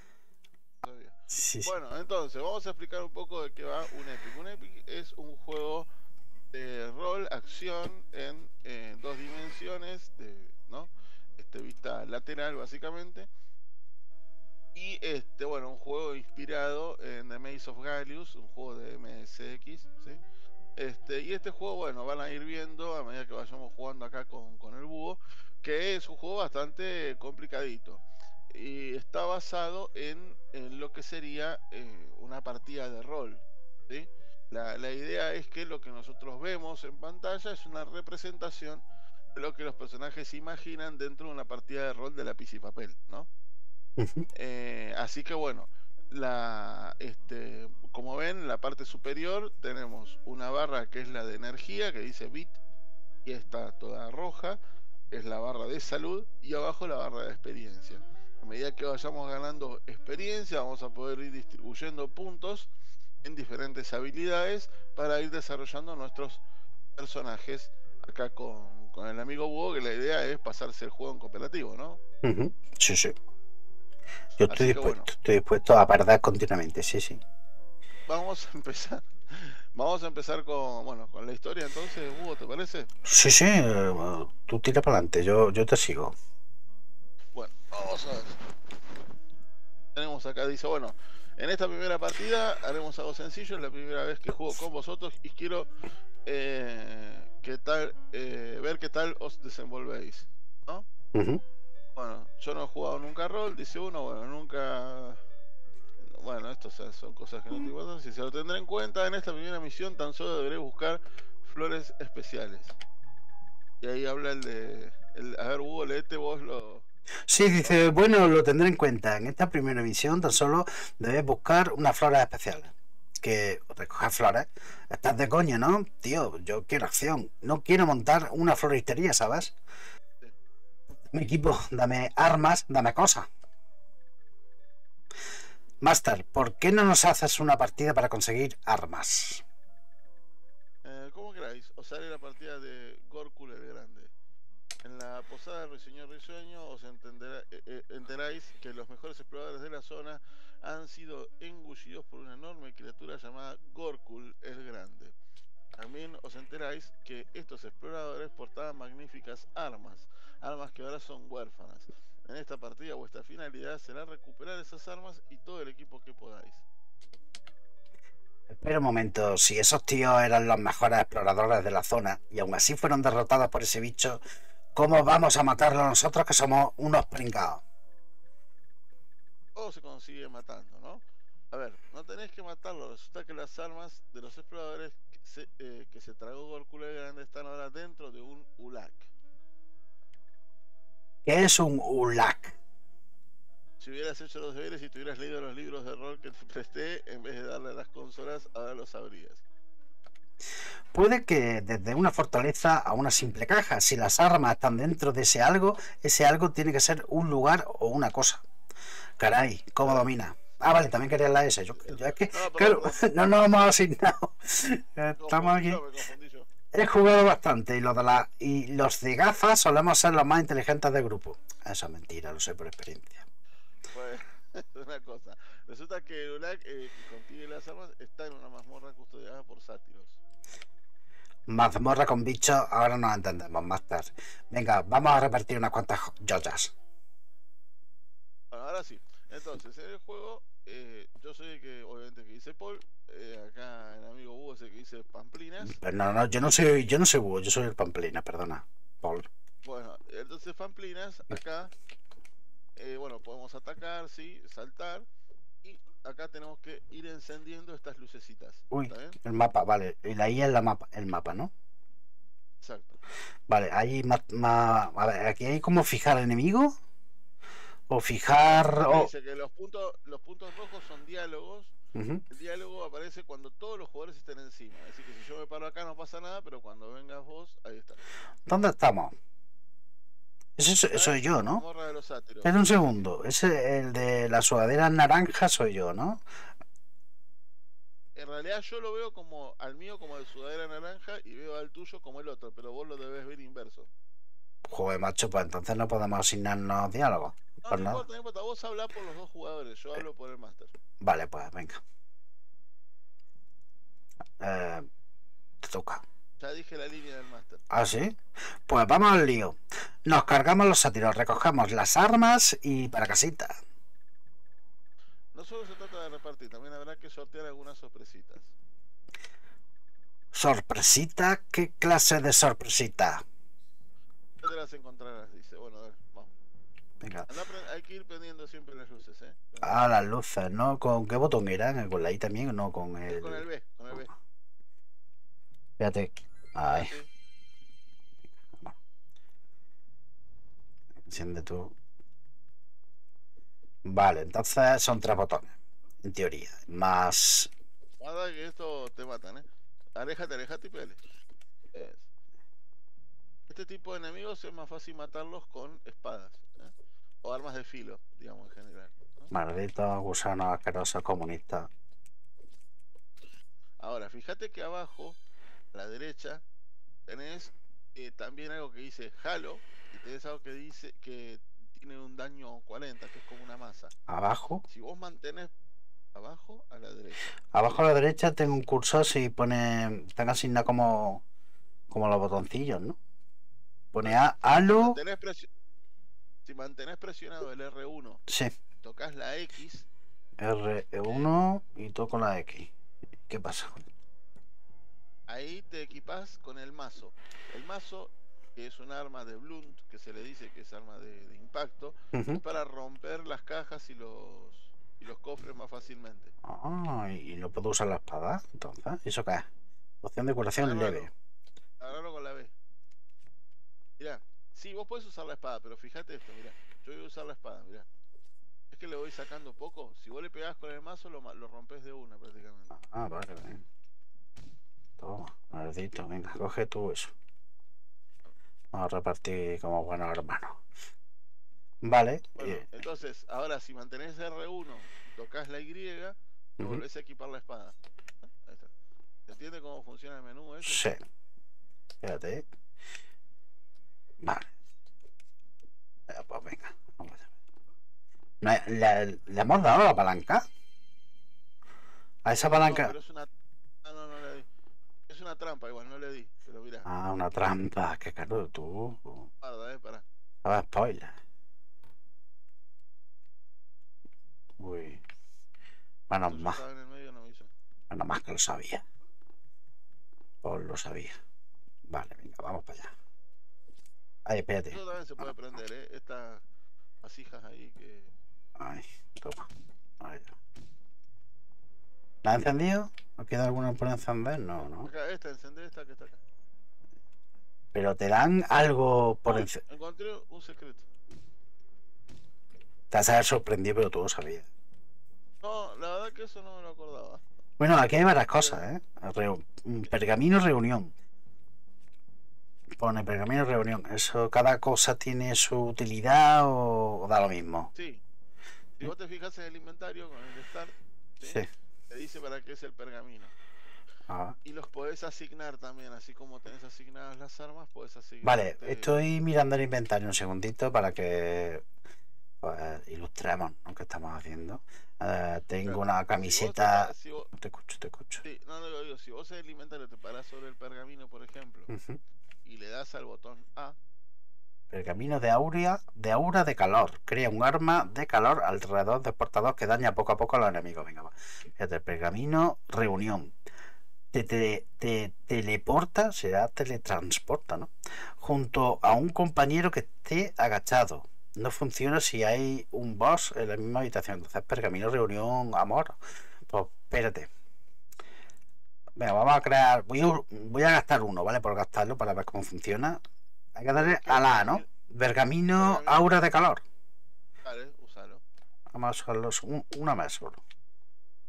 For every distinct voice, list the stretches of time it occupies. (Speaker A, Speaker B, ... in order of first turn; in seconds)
Speaker A: 0.8-5.9, 6.5-13.3, 14.8-20.2, 20.8-38.8, 39.4-43.3, 44.3-52.6, 53.2-54.6, 55.1-62.7, 63.2-66.4, 67.0-72.0, 74.5-75.1, 78.1-82.9, 87.3-88.4, 90.0-95.7, 96.2-100.9, 102.0-105.2, 106.0-112.8, 113.8-116.8, 117.4-117.8, 140.8-144.1, 144.8-155.2, 155.8-166.7, 179.6-189.1, 193.8-199.4, 209.8-210.1, 211.8-213.1, 215.2-216.5, 223.9-230.2, 238.5-245.8, 249.6-251.7, 252.8-255.1, 255.6-259.2, 262.6-263.0, 268.4-271.7, 272.3-278.0, 280.9-282.9, 288.2-293.9, 297.6-300.7, 306.4-307.7, 315.3-318.6, 324.4-326.3, 327.3-329.9, 333.1-334.1, 336.6-337.1, 348.0-351.0, 351.7-352.1, 353.5-359.3, 363.8-365.2, 365.7-366.4, 367.1-373.9, 374.7-375.5, 376.1-377.3, 384.0-385.5, 386.4-388.2, 388.8-389.9, 395.3-406.3, 410.6-411.1, 411.8-412.5, 414.0-417.9, 418.7-422.8, 432.4-438.7, 439.3-440.9, 452.3-453.3, 453.8-454.5, 455.1-456.9, 459.4-460.0, 466.3-467.5, 474.7-476.4, 477.0-478.1, 484.6-486.2, 489.3-490.9, 495.4-497.2, 498.4-498.7, 507.8-508.0, 508.8-513.3, 514.4-519.0, 525.6-527.3, 528.2-531.7, 532.5-533.8, 563.8-564.7, 565.5-566.1, 567.4-568.2
Speaker B: 1.3-1.7, 44.0-44.3, 72.2-73.2, 74.4-77.2, 83.0-86.1, 101.1-101.4, 117.3-129.5, 131.0-133.3, 135.8-139.4, 168.5-174.2, 174.8-177.6, 191.2-192.6, 200.9-208.4, 209.2-215.8, 216.7-223.2, 231.5-236.7, 245.6-249.3, 258.7-261.5, 263.5-266.8, 267.9-269.1, 271.9-272.2, 278.5-279.1, 280.6-281.6, 282.4-286.2, 294.7-298.0, 301.0-301.8, 304.4-304.9, 305.6-306.0, 307.7-313.6, 320.3-323.2, 327.0-327.3, 329.6-334.0, 335.8-336.9, 338.5-338.8, 341.0-341.7, 343.9-347.5, 359.3-361.7, 374.1-374.6, 377.5-381.2, 381.9-383.0, 383.9-385.0, 388.3-388.5, 390.4-392.7, 393.3-393.9, 402.1-402.4, 406.4-409.5, 410.0-411.1, 422.7-423.6, 425.0-427.1, 428.7-430.6, 431.8-432.7, 440.6-441.0, 442.0-442.4, 444.2-444.5, 446.1-447.3, 448.4-450.5, 452.2-452.9, 456.9-459.3, 460.4-461.2, 464.6-465.0, 466.1-466.6, 467.9-468.9, 470.4-471.2, 471.9-472.9, 474.3-475.3, 478.6-479.5, 480.0-480.4, 482.2-484.9, 487.7-489.6, 492.9-494.5, 497.6-500.9, 502.8-507.7, 514.1-514.4, 518.2-521.6, 522.4-528.2, 531.7-532.0, 534.7-543.3, 544.1-557.3, 559.0-563.0, 563.6-566.6, 568.7-570.4